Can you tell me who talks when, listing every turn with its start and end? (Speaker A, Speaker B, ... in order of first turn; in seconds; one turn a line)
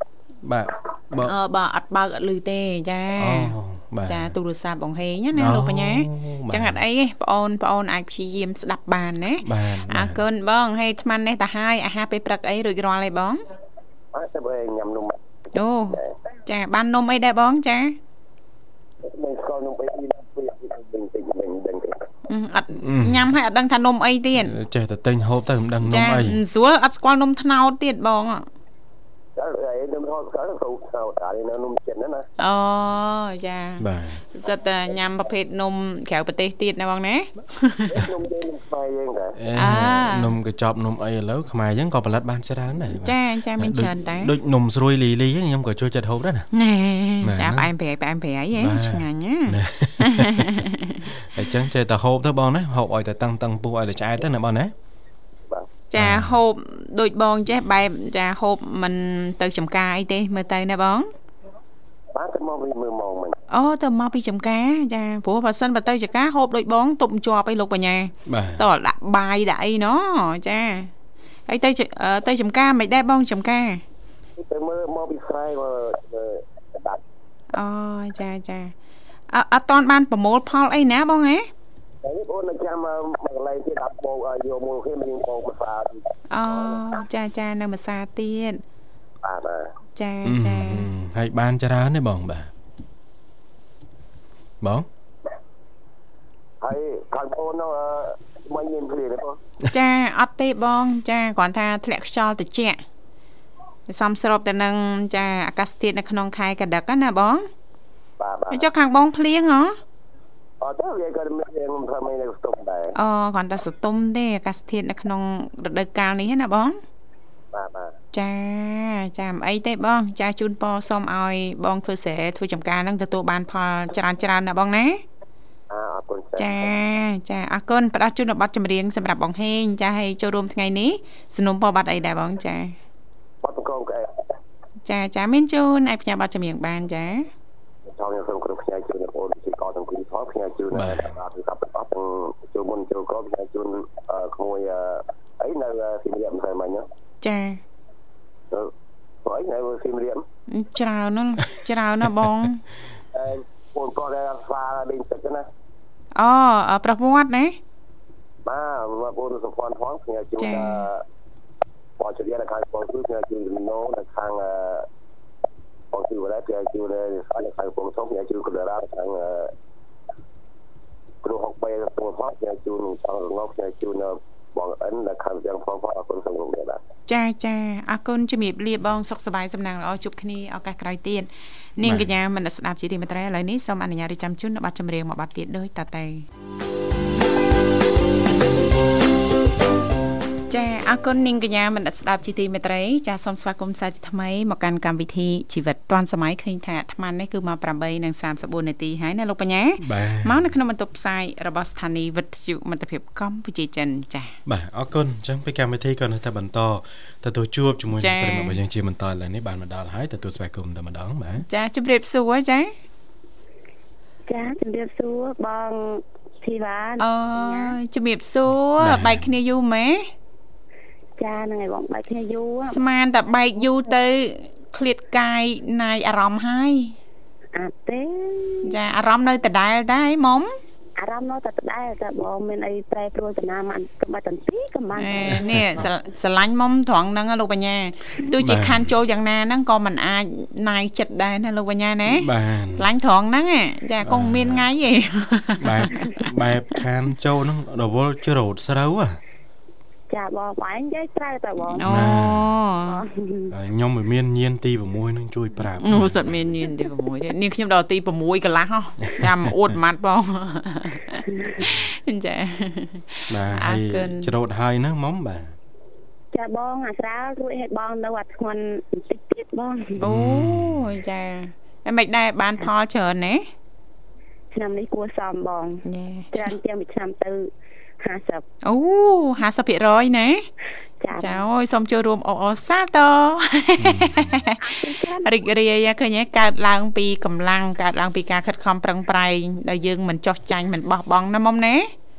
Speaker A: 0.4-1.3
Speaker B: 1.2-3.5
Speaker A: 3.1-4.3
Speaker B: 4.0-13.4
Speaker A: 5.3-6.8
Speaker A: 9.4-10.2
Speaker C: 14.1-15.2
Speaker B: 15.5-18.0
Speaker C: 19.0-22.1
Speaker B: 22.3-24.5
Speaker A: 22.8-23.3
Speaker A: 24.3-26.4
Speaker B: 25.8-28.4
Speaker C: 29.4-32.2
Speaker B: 32.4-38.0
Speaker A: 33.8-34.2
Speaker C: 37.9-39.4
Speaker A: 39.4-46.5
Speaker B: 39.5-40.4
Speaker B: 42.9-44.3
Speaker B: 46.5-51.1
Speaker A: 47.2-47.7
Speaker A: 48.5-54.7
Speaker B: 55.9-61.1
Speaker A: 56.0-56.4
Speaker C: 62.1-63.4
Speaker B: 63.5-70.9
Speaker A: 68.2-68.7
Speaker B: 71.5-73.8
Speaker C: 74.4-77.0
Speaker B: 77.5-78.7
Speaker B: 79.3-81.5
Speaker C: 82.0-86.8
Speaker B: 86.3-88.6
Speaker C: 89.2-89.7
Speaker B: 90.0-90.9
Speaker A: 90.2-92.5
Speaker A: 94.6-94.9
Speaker C: 96.6-99.4
Speaker B: 99.7-102.8
Speaker B: 103.9-107.4
Speaker C: 108.2-108.7
Speaker B: 108.5-109.8
Speaker C: 110.6-112.9
Speaker B: 112.9-116.8
Speaker C: 117.5-117.9
Speaker B: 118.1-125.0
Speaker C: 125.7-126.7
Speaker B: 126.4-132.8
Speaker C: 133.4-134.3
Speaker B: 134.8-137.3
Speaker C: 137.8-146.8
Speaker A: 140.7-141.2
Speaker B: 147.2-147.6
Speaker C: 149.2-150.2
Speaker B: 150.5-152.6
Speaker C: 153.1-155.5
Speaker B: 156.2-157.6
Speaker C: 158.4-161.0
Speaker B: 160.4-160.8
Speaker C: 162.0-164.9
Speaker C: 165.9-169.5
Speaker C: 171.2-176.8
Speaker B: 177.1-186.2
Speaker A: 181.8-182.1
Speaker B: 190.5-204.3
Speaker A: 199.8-200.4
Speaker A: 204.4-211.4
Speaker B: 208.0-208.6
Speaker B: 211.5-212.7
Speaker D: 214.3-217.8
Speaker B: 217.0-220.1
Speaker A: 218.8-219.3
Speaker D: 221.2-222.8
Speaker B: 222.6-226.9
Speaker D: 223.6-223.9
Speaker D: 227.5-228.7
Speaker B: 228.6-230.5
Speaker D: 231.0-235.8
Speaker B: 235.0-246.2
Speaker A: 238.4-238.9
Speaker A: 242.1-242.9
Speaker A: 244.0-244.7
Speaker A: 245.6-249.2
Speaker D: 250.1-251.9
Speaker B: 251.7-253.0
Speaker A: 251.8-252.6
Speaker D: 252.8-253.5
Speaker A: 253.5-256.4
Speaker B: 255.8-264.3
Speaker A: 259.2-259.5
Speaker D: 261.3-261.7
Speaker A: 263.3-265.6
Speaker D: 266.3-270.0
Speaker B: 270.0-273.4
Speaker A: 270.0-270.9
Speaker D: 274.5-277.5
Speaker B: 275.8-276.5
Speaker D: 278.0-278.4
Speaker B: 278.6-280.5
Speaker D: 281.0-281.4
Speaker B: 281.1-291.9
Speaker A: 283.8-284.4
Speaker D: 284.6-285.4